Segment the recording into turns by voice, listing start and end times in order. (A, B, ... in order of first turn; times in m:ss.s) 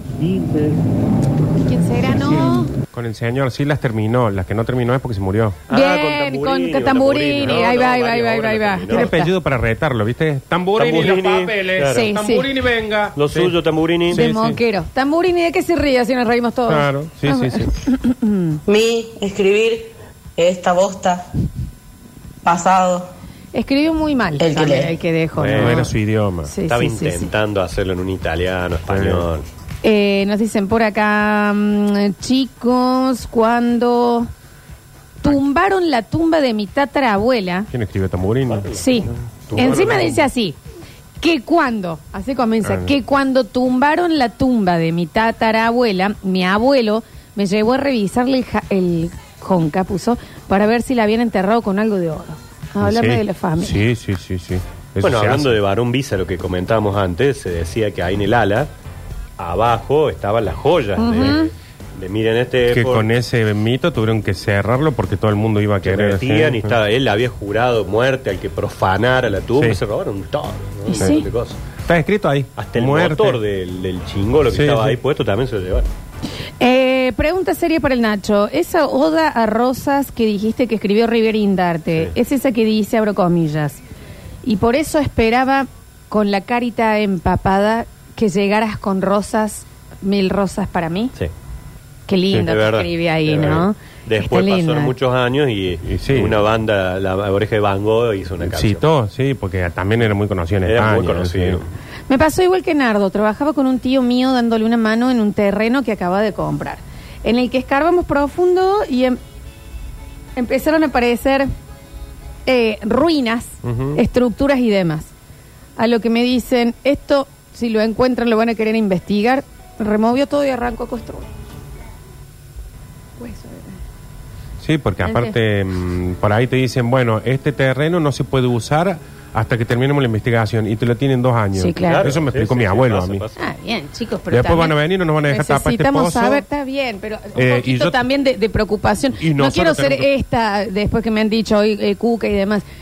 0:01.6-0:02.7 A
0:02.9-0:05.6 B
0:05.7-0:09.1 C
0:05.7-0:09.3 A
0:08.9-0:13.6 B
0:10.8-0:12.1 C
0:11.8-0:12.5 A
0:13.2-0:14.2 C
0:14.1-0:18.6 A
0:14.1-0:14.6 B
0:16.7-0:17.7 B
0:18.7-0:19.5 D
0:20.4-0:21.1 D
0:23.5-0:25.9 A
0:24.4-0:24.9 D
0:25.4-0:25.9 C
0:25.5-0:26.5 B
0:26.5-0:27.3 A
0:26.7-0:29.4 C
0:28.8-0:29.3 B
0:29.8-0:34.3 A
0:35.2-0:37.7 A
0:37.7-0:38.7 B
0:38.4-0:38.8 C
0:38.7-0:40.6 A
0:39.5-0:40.0 C
0:39.5-0:40.3 B
0:41.2-0:53.8 A
0:42.6-0:42.9 B
0:52.8-0:55.6 B
0:55.0-0:58.7 C
0:59.4-1:03.1 C
1:01.0-1:01.5 A
1:02.7-1:06.8 B
1:05.8-1:11.6 C
1:09.5-1:09.8 B
1:10.9-1:11.3 A
1:11.9-1:13.4 B
1:12.6-1:15.9 C
1:14.5-1:15.0 B
1:16.6-1:23.8 A
1:24.4-1:31.1 A
1:32.1-1:34.9 A
1:32.4-1:38.8 C
1:35.8-1:36.4 B
1:38.4-1:41.6 B
1:40.6-1:41.7 C
1:42.1-1:49.2 A
1:50.4-1:51.5 A
1:52.4-1:55.1 A
1:53.6-1:54.0 B
1:55.8-2:01.3 A
2:03.2-2:03.8 A
2:04.6-2:13.2 B
2:05.0-2:05.3 A
2:11.5-2:12.1 A
2:11.9-2:13.4 C
2:13.4-2:14.8 A
2:14.3-2:16.4 B
2:15.3-2:22.6 A
2:17.3-2:18.0 B
2:19.2-2:20.1 B